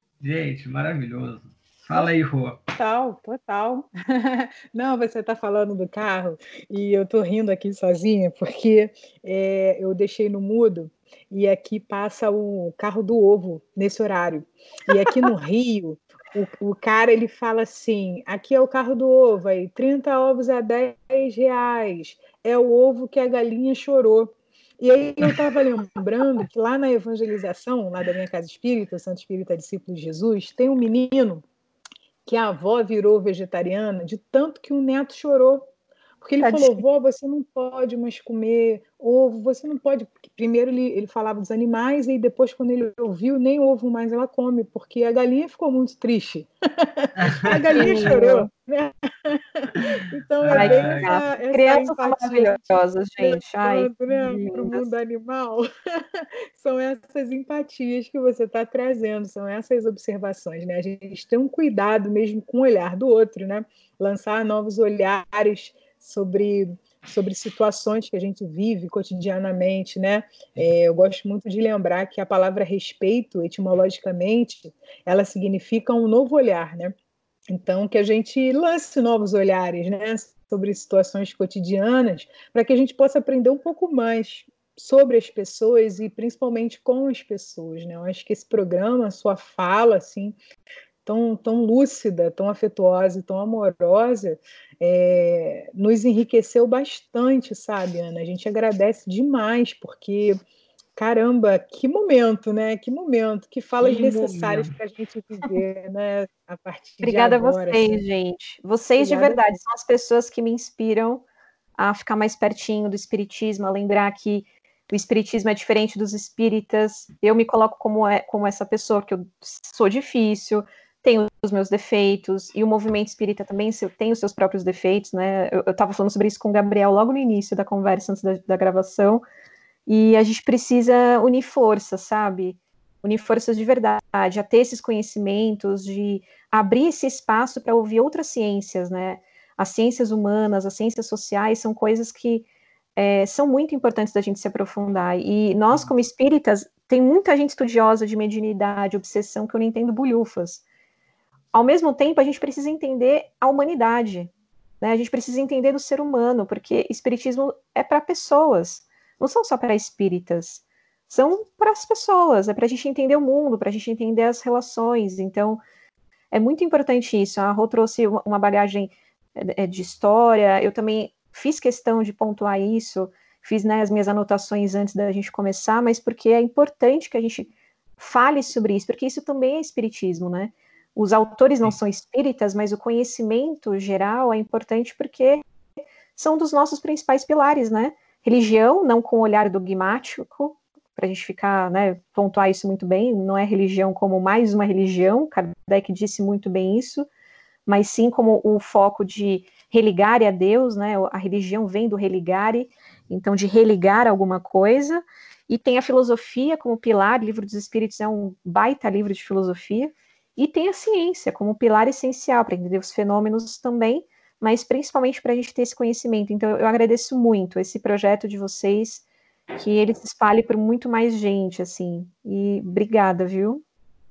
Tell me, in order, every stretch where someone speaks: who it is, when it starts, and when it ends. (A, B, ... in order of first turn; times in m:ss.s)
0:00.2-0:02.6 A
0:02.7-0:31.4 B
0:14.9-0:15.2 C
0:32.2-0:35.7 B
0:36.2-1:17.0 B
0:36.4-0:36.8 C
0:47.2-0:48.1 A
0:47.7-0:48.5 C
0:50.4-0:51.2 A
0:50.5-0:54.8 C
1:17.5-1:30.4 B
1:31.0-1:40.4 B
1:41.0-1:48.0 B
1:43.8-1:44.7 A
1:47.0-1:51.2 C
1:49.0-1:49.6 B
1:51.8-2:09.2 C
2:09.9-2:30.6 C
2:31.5-2:45.6 C
2:46.3-3:05.4 C
3:06.2-3:17.1 C
3:17.7-3:39.0 C
3:39.6-3:43.6 C